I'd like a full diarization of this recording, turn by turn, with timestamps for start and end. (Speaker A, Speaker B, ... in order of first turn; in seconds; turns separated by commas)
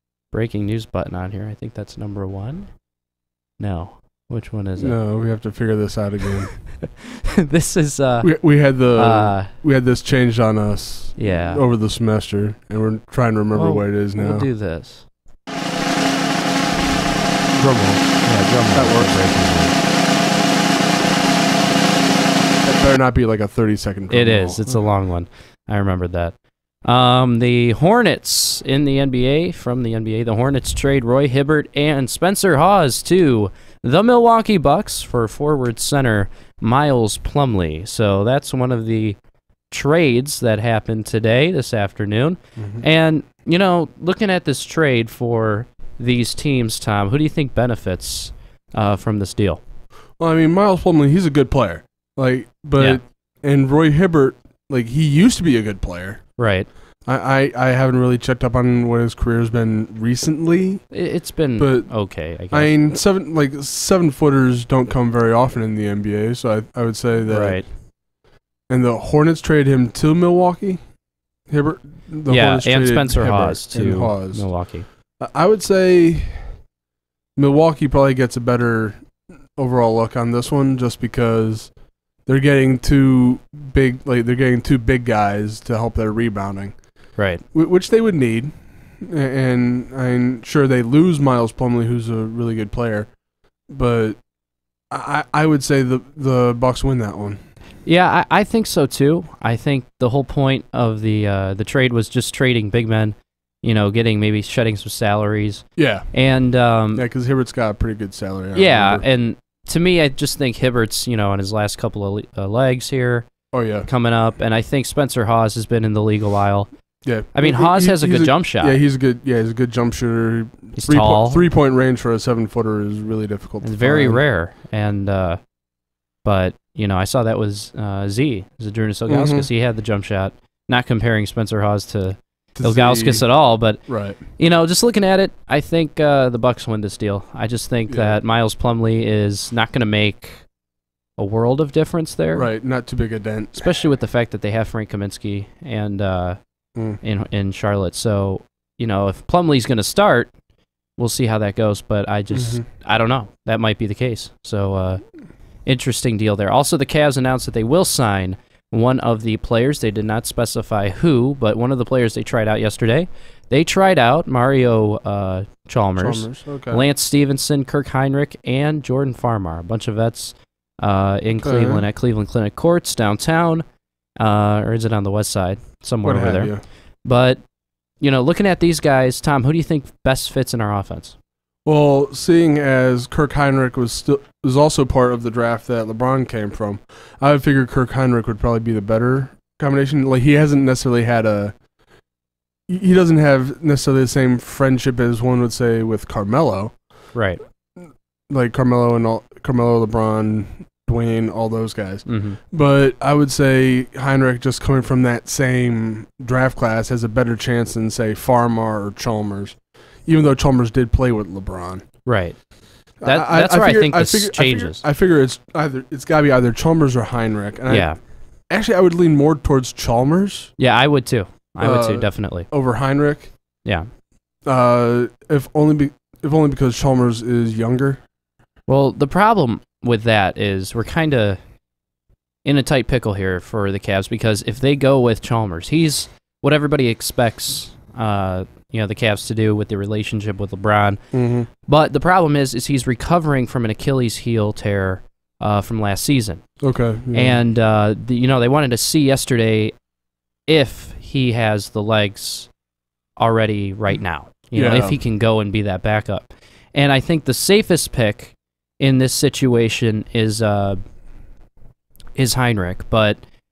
Speaker A: 0.3-2.8, Speaker A: 3.6-5.0, Speaker B: 4.8-6.5, Speaker A: 7.5-9.5, Speaker B: 8.2-14.5, Speaker A: 11.2-11.7, Speaker A: 13.5-15.1, Speaker B: 17.6-19.4, Speaker A: 18.2-19.8, Speaker B: 22.6-24.8, Speaker A: 24.1-39.2, Speaker A: 39.7-49.6, Speaker B: 42.6-42.9, Speaker B: 50.2-56.4, Speaker A: 56.4-56.7, Speaker B: 57.0-60.9, Speaker A: 60.9-63.0, Speaker B: 61.6-67.7, Speaker A: 67.3-67.7, Speaker B: 68.7-70.8, Speaker B: 71.5-74.5, Speaker A: 72.3-74.9, Speaker B: 75.2-76.5, Speaker B: 77.4-79.0, Speaker B: 79.5-86.8, Speaker A: 87.2-87.4, Speaker B: 87.5-93.1, Speaker B: 93.7-94.2, Speaker B: 94.9-97.4, Speaker A: 97.8-107.0, Speaker B: 105.8-106.1, Speaker B: 106.9-109.1, Speaker A: 108.5-113.3, Speaker B: 113.5-113.9, Speaker A: 113.8-116.7, Speaker B: 117.0-124.2, Speaker A: 117.3-118.8, Speaker A: 120.8-121.5, Speaker A: 123.6-125.4, Speaker A: 126.2-140.4, Speaker B: 129.1-129.5, Speaker B: 132.6-134.2, Speaker B: 137.9-138.2, Speaker A: 141.2-142.5, Speaker B: 142.3-143.7, Speaker A: 143.6-146.4, Speaker A: 147.0-150.3, Speaker A: 151.0-155.0, Speaker B: 152.3-152.7, Speaker A: 155.7-173.7, Speaker B: 166.0-166.8, Speaker B: 171.4-171.8, Speaker A: 174.2-176.5, Speaker B: 176.0-176.6, Speaker A: 177.1-177.4, Speaker A: 178.0-181.2, Speaker B: 181.7-191.6, Speaker B: 192.7-196.8, Speaker A: 197.1-197.4, Speaker B: 198.3-211.8, Speaker A: 202.1-202.4, Speaker A: 212.1-212.5, Speaker A: 213.0-214.8, Speaker B: 213.0-217.9, Speaker A: 217.7-218.0, Speaker B: 218.5-220.5, Speaker A: 220.6-222.5, Speaker B: 221.6-223.3, Speaker B: 224.4-228.0, Speaker A: 228.7-231.4, Speaker A: 232.4-241.0, Speaker B: 241.1-241.5, Speaker A: 241.7-246.6, Speaker B: 246.6-247.4, Speaker A: 247.1-249.7, Speaker A: 250.5-252.5, Speaker A: 253.2-260.8, Speaker B: 254.5-255.0, Speaker A: 262.2-263.2